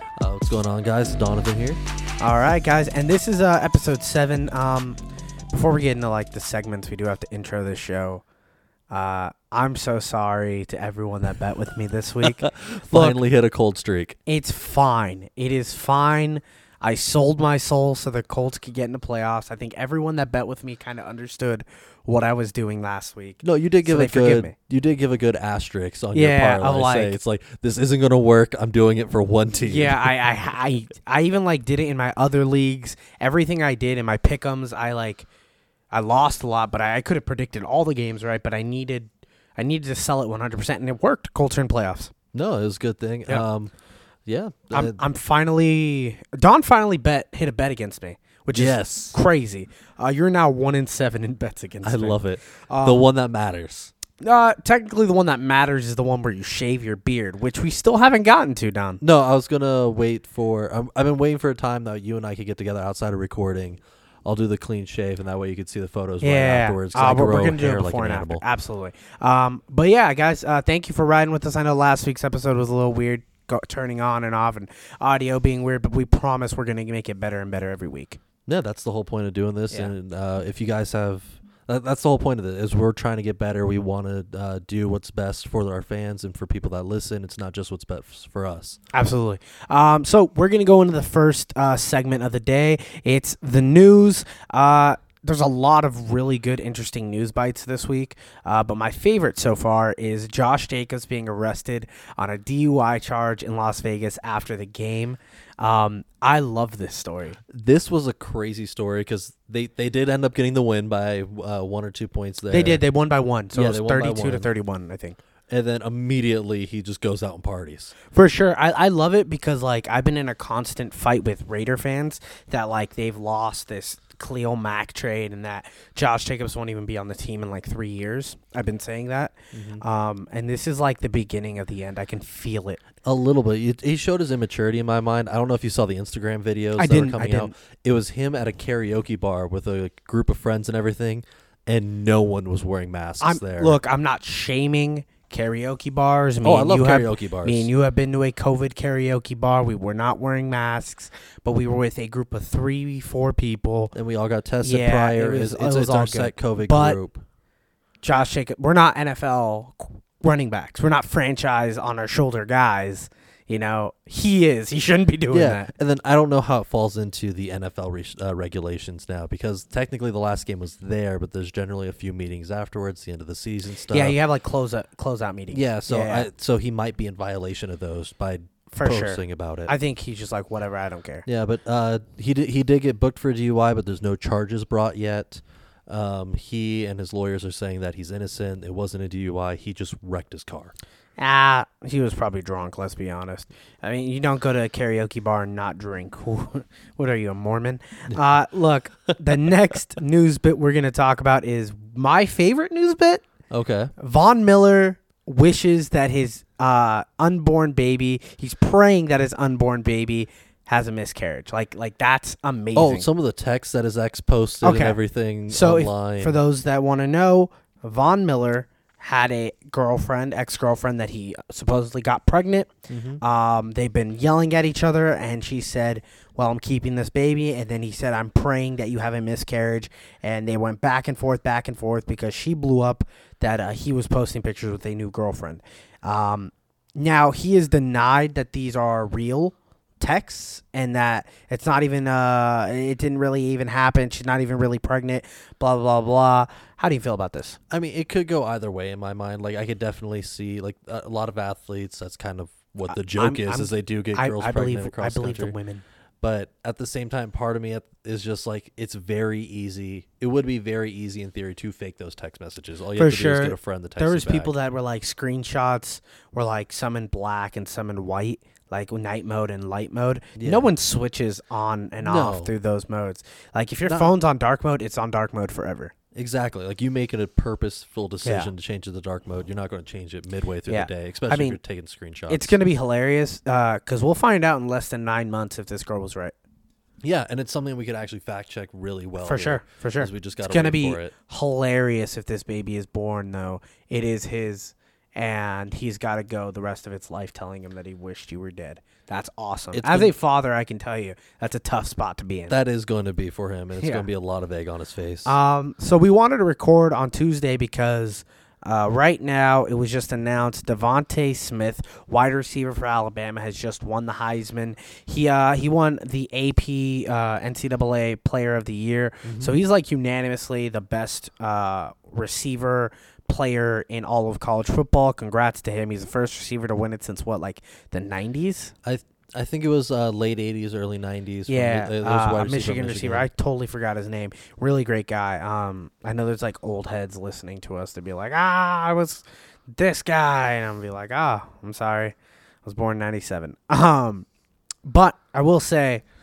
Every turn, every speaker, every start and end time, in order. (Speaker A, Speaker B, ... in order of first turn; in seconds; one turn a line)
Speaker A: 0.2-1.8
Speaker B: 2.2-5.0
Speaker B: 5.5-8.2
Speaker B: 8.9-13.2
Speaker A: 12.2-14.2
Speaker B: 14.3-24.5
Speaker A: 23.4-30.1
Speaker B: 26.1-27.2
Speaker B: 29.6-35.3
Speaker B: 35.9-42.1
Speaker A: 42.3-43.7
Speaker A: 44.3-45.0
Speaker B: 44.7-53.1
Speaker A: 48.5-49.2
Speaker A: 51.8-53.9
Speaker B: 54.2-59.0
Speaker A: 59.0-68.4
Speaker B: 66.2-78.2
Speaker A: 78.5-88.8
Speaker B: 88.9-107.4
Speaker A: 107.5-112.8
Speaker B: 112.5-115.2
Speaker A: 113.5-114.5
Speaker A: 115.5-118.0
Speaker B: 118.1-132.8
Speaker A: 129.5-129.8
Speaker A: 133.0-143.8
Speaker B: 136.8-137.5
Speaker B: 143.2-153.9
Speaker A: 146.4-147.7
Speaker A: 153.9-157.2
Speaker B: 154.6-157.0
Speaker B: 158.0-165.7
Speaker A: 165.3-174.2
Speaker B: 173.9-176.3
Speaker A: 175.5-179.7
Speaker B: 178.7-181.2
Speaker A: 181.3-190.7
Speaker B: 191.2-203.2
Speaker A: 203.5-203.9
Speaker B: 204.0-213.1
Speaker A: 212.8-216.4
Speaker B: 214.6-215.0
Speaker B: 215.5-247.6
Speaker A: 222.9-223.2
Speaker A: 247.7-255.6
Speaker B: 252.9-255.8
Speaker A: 256.2-264.5
Speaker B: 263.0-275.9
Speaker A: 270.4-270.7
Speaker A: 272.0-272.5
Speaker A: 273.9-274.1
Speaker A: 276.1-282.6
Speaker B: 278.2-278.5
Speaker B: 280.7-281.6
Speaker B: 282.3-286.4
Speaker A: 287.0-291.1
Speaker B: 289.2-302.5
Speaker A: 299.7-300.1
Speaker A: 302.5-305.4
Speaker B: 303.8-304.1
Speaker B: 305.2-328.7
Speaker A: 319.2-319.6
Speaker A: 328.8-333.3
Speaker B: 331.5-344.3
Speaker B: 344.9-346.0